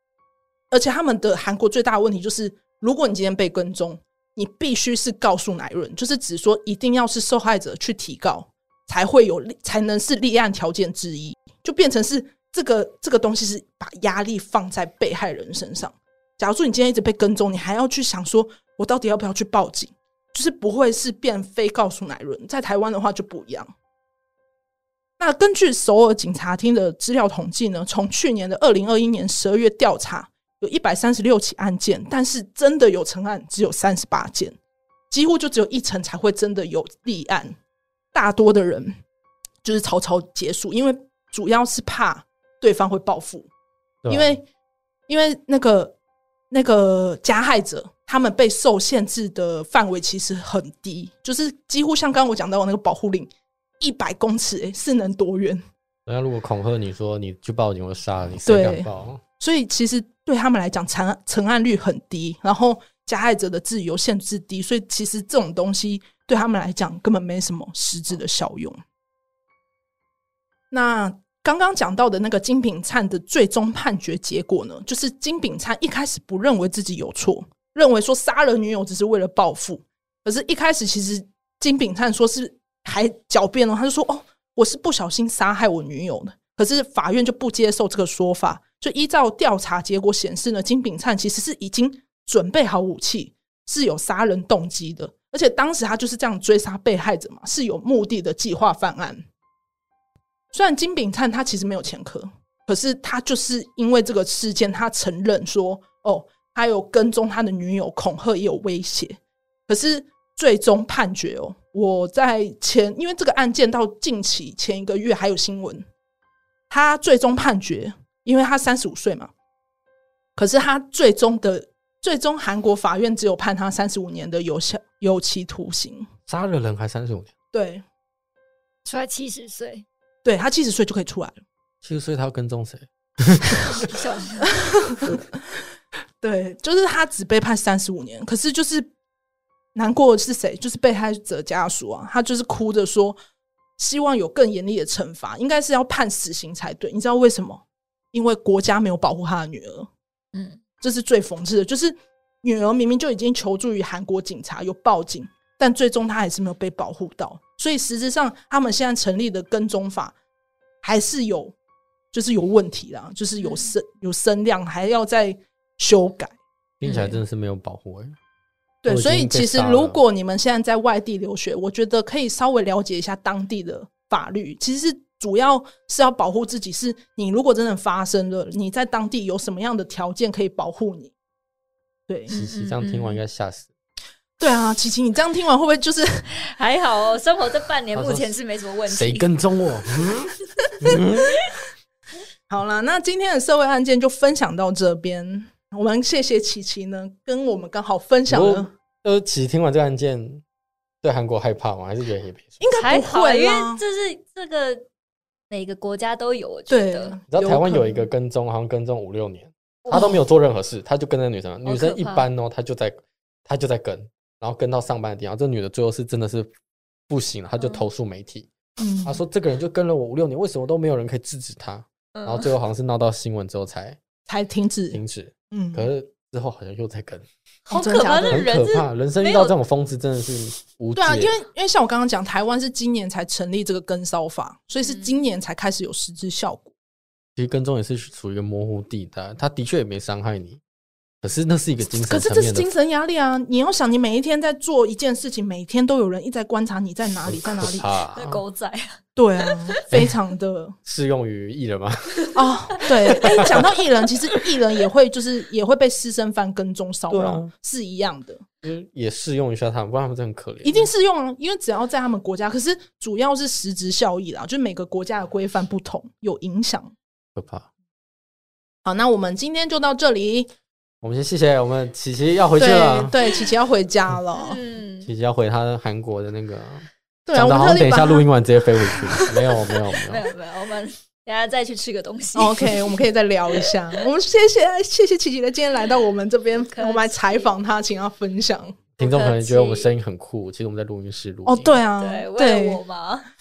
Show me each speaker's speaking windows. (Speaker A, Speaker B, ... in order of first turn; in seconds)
Speaker A: 0.7-23.7, 25.2-34.6, 35.1-37.6, 38.1-38.9, 39.6-43.5, 44.1-44.4, 45.1-46.0, 46.5-55.6, 58.5-58.9, 59.4-68.8, 70.7-99.2, 100.5-115.8, 116.7-119.3, 120.4-126.1, 127.5-127.8, 130.2-131.4, 134.4-135.4, 136.2-138.9, 139.8-143.2, 143.8-149.9, 150.8-160.2, 160.8-161.5, 162.1-166.4, 168.8-181.1, 182.1-182.3, 184.4-186.3, 192.5-198.7, 202.6-203.8, 206.7-208.1, 209.9-210.2, 218.8-219.2, 224.3-225.0, 225.5-225.9, 227.7-228.5, 230.9-236.7, 241.9-247.9, 249.2-250.8, 252.3-258.4, 260.6-266.9, 268.9-270.5, 272.6-274.6, 277.3-278.3, 282.4-288.8, 291.5-292.8
Speaker B: 44.0-44.4, 56.1-59.2, 126.3-127.3, 131.8-133.9, 166.8-168.2, 168.9-170.0, 182.3-183.7, 187.9-188.3, 188.9-191.4, 198.3-200.4, 201.0-202.6, 207.3-216.5, 217.1-218.5, 219.0-224.0, 224.9-227.3, 228.3-231.3, 237.4-240.6, 241.2-242.7, 247.2-248.4, 250.8-252.3, 252.9-253.7, 257.1-257.5, 258.6-260.9, 267.4-267.7, 271.0-273.2, 275.1-280.2, 289.0-291.8
Speaker C: 128.8-129.8, 133.8-134.5, 150.3-150.6, 163.4-163.7, 166.9-167.2, 182.3-183.2, 186.4-189.3, 202.8-204.8, 205.5-207.2, 209.8-210.1, 211.7-212.3, 222.2-222.5, 227.7-229.6, 248.1-249.8, 252.2-254.4, 274.4-275.1, 280.0-282.9, 286.7-287.2, 289.0-289.9, 292.0-293.3